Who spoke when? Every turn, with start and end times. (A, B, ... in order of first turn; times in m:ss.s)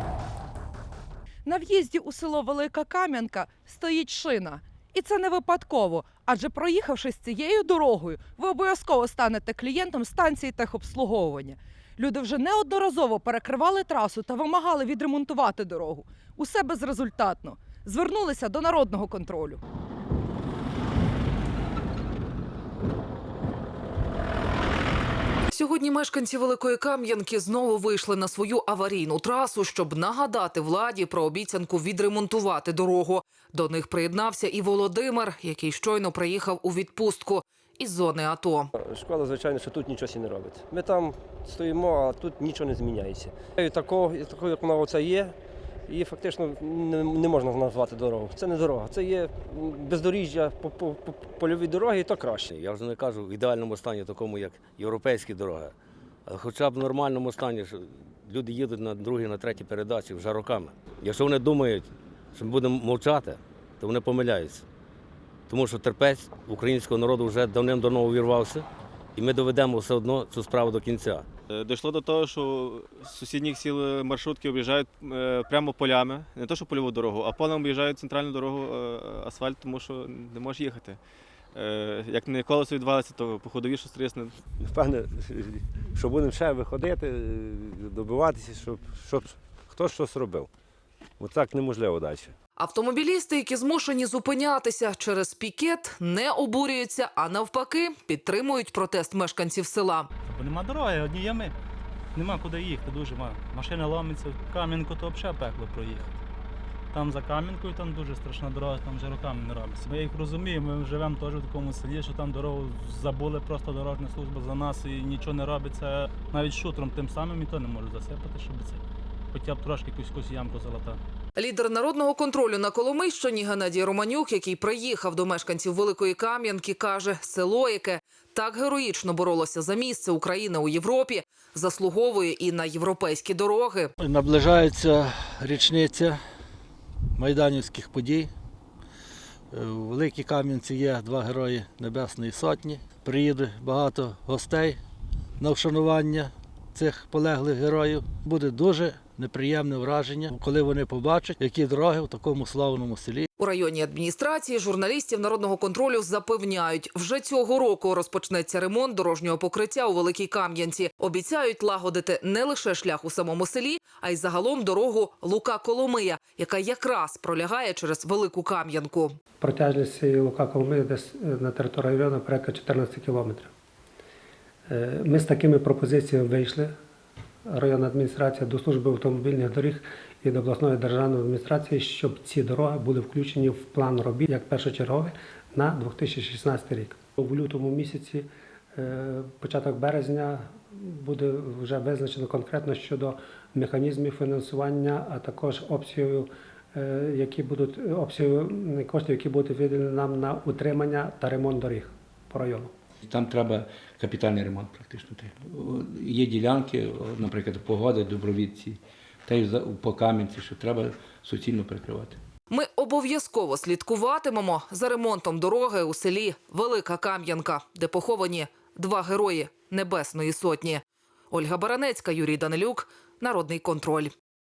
0:01.4-0:19.6 A
0:25.5-0:38.7 B
0:38.8-0:45.4 C
0:45.9-0:52.5 C
0:52.5-0:55.7 D
0:56.2-1:04.6 D
1:05.5-1:11.2 D
1:11.5-1:21.0 E
1:21.5-1:24.4 E
1:24.6-1:30.5 F
1:31.2-1:32.3 F
1:32.6-1:40.1 B
1:40.3-1:41.5 G
1:42.1-1:46.1 G
1:46.9-1:58.8 G
1:59.3-2:01.0 G
2:01.4-2:13.9 B
2:14.0-2:16.2 H
2:17.2-2:18.3 H
2:19.5-2:24.8 H
2:25.4-2:33.3 H
2:33.4-2:49.2 B
2:49.4-2:53.5 I
2:54.7-2:56.7 I
2:57.5-3:22.7 I
3:23.1-3:32.2 J
3:32.5-3:44.1 B